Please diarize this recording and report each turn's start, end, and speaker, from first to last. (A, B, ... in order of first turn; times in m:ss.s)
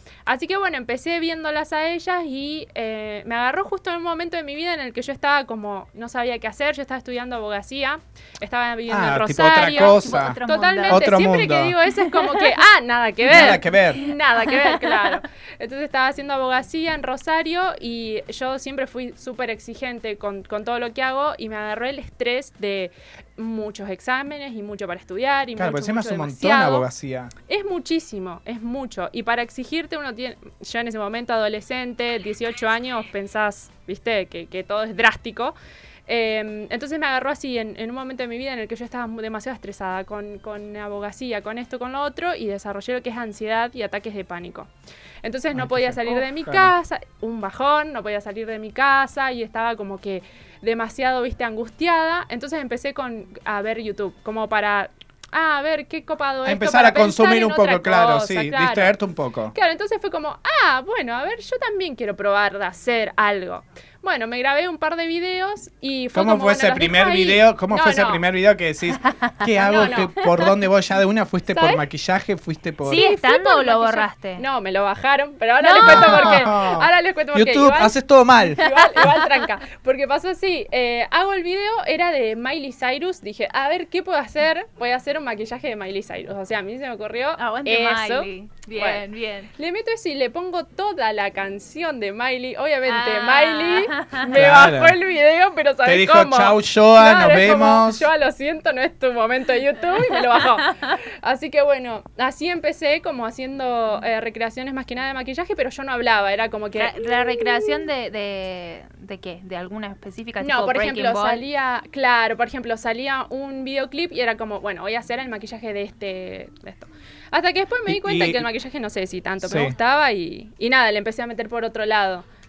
0:00.3-0:26.9 A
0:08.9-0:11.8 B
0:09.4-0:11.1 C
0:12.0-0:12.3 C
0:13.3-0:14.0 B
0:14.0-0:15.1 C
0:25.6-0:27.3 B
0:27.5-0:35.6 A
0:36.1-0:44.7 A
0:45.2-0:59.0 A
0:45.5-0:46.7 B
0:56.4-0:59.6 B
0:59.5-1:08.2 A
1:06.1-1:13.0 B
1:09.0-1:09.3 C
1:09.6-1:10.2 A
1:11.5-1:11.8 A
1:12.8-1:14.4 C
1:12.9-1:47.8 A
1:15.6-1:16.5 C
1:15.8-1:19.1 B
1:27.4-1:29.5 C
1:32.9-1:34.3 C
1:34.3-1:35.0 B
1:35.8-1:38.1 B
1:46.8-1:51.4 C
1:50.4-2:02.2 A
1:57.9-1:58.5 B
1:59.4-1:59.8 B